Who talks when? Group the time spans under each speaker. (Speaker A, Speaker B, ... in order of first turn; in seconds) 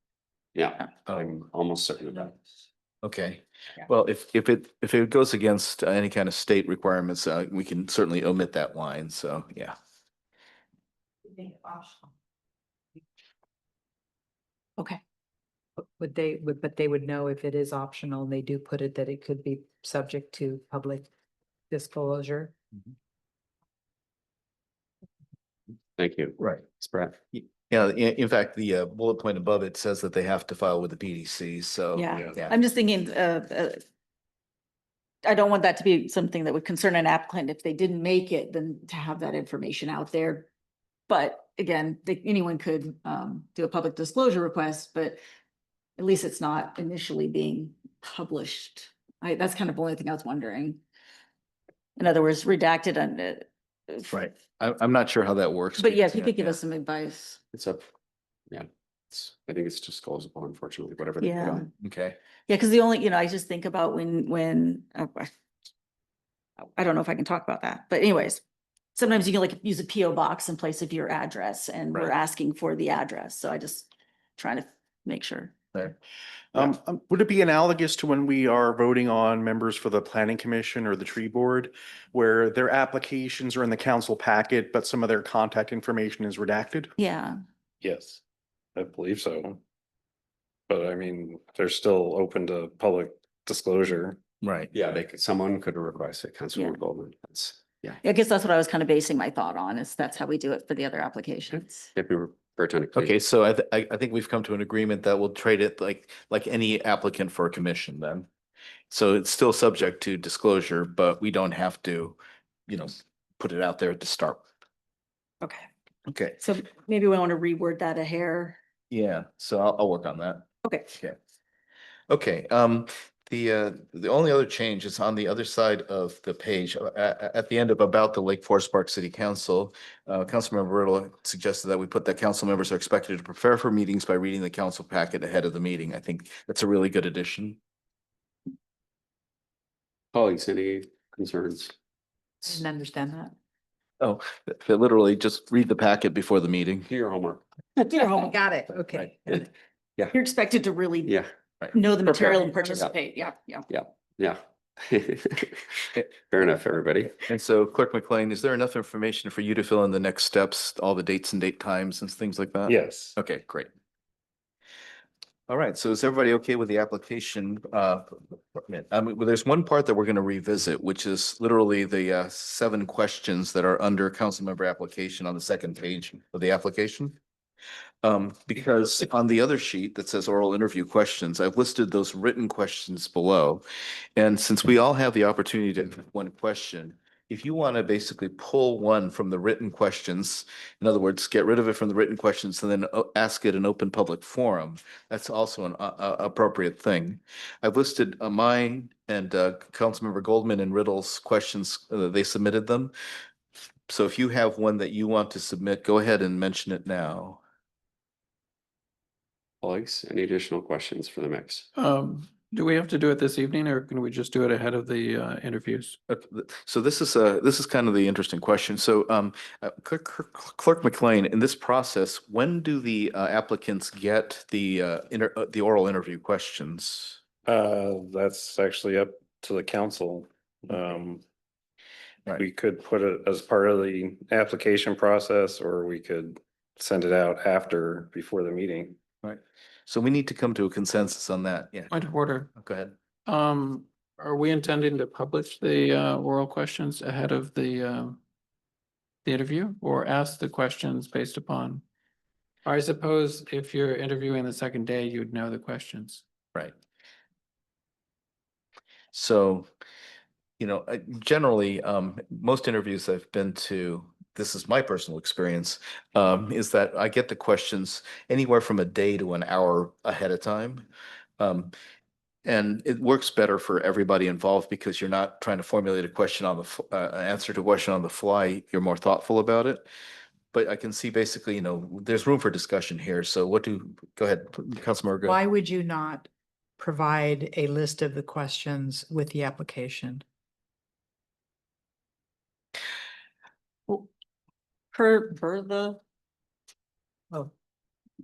Speaker A: 0.6-2.4, 26.0-27.1, 57.5-57.9, 58.5-61.7, 94.7-98.0, 101.8-103.1, 140.1-141.7, 146.9-147.4, 153.7-157.2, 209.6-211.7
Speaker B: 3.0-9.7, 26.4-26.6, 27.3-32.5, 54.1-56.6, 61.8-62.2, 94.4-94.7, 102.9-108.3, 108.9-114.4, 116.1-116.4, 118.9-121.2, 122.1-137.6, 144.0-146.9, 157.2-163.7, 165.5-177.2, 178.0-183.6, 184.2-202.9, 203.9-207.4, 216.1-227.2, 239.2-241.9, 242.6-242.9, 259.1-259.7, 260.6-270.9, 271.4-271.7, 272.4-279.9, 280.5-285.4
Speaker C: 11.4-12.1, 15.8-21.1, 21.7-22.5, 142.4-143.3, 147.8-149.5, 152.2-153.2, 285.2-290.2
Speaker D: 31.9-33.8, 35.2-40.5, 41.1-45.2, 46.0-50.8, 52.0-54.1, 55.8-57.4, 61.2-61.7, 62.5-65.3, 66.8-68.4, 69.0-75.6, 87.0-87.4, 96.5-96.8, 98.0-101.9, 115.4-115.7, 116.4-118.6, 150.1-151.2, 151.7-153.7, 294.9-296.0
Speaker E: 76.5-86.9
Speaker F: 87.8-88.2, 88.8-89.6, 90.7-94.2, 162.7-163.2, 227.4-231.2, 232.3-239.0
Speaker G: 211.8-216.0, 241.9-242.5, 243.3-248.2, 249.2-251.8, 252.7-256.2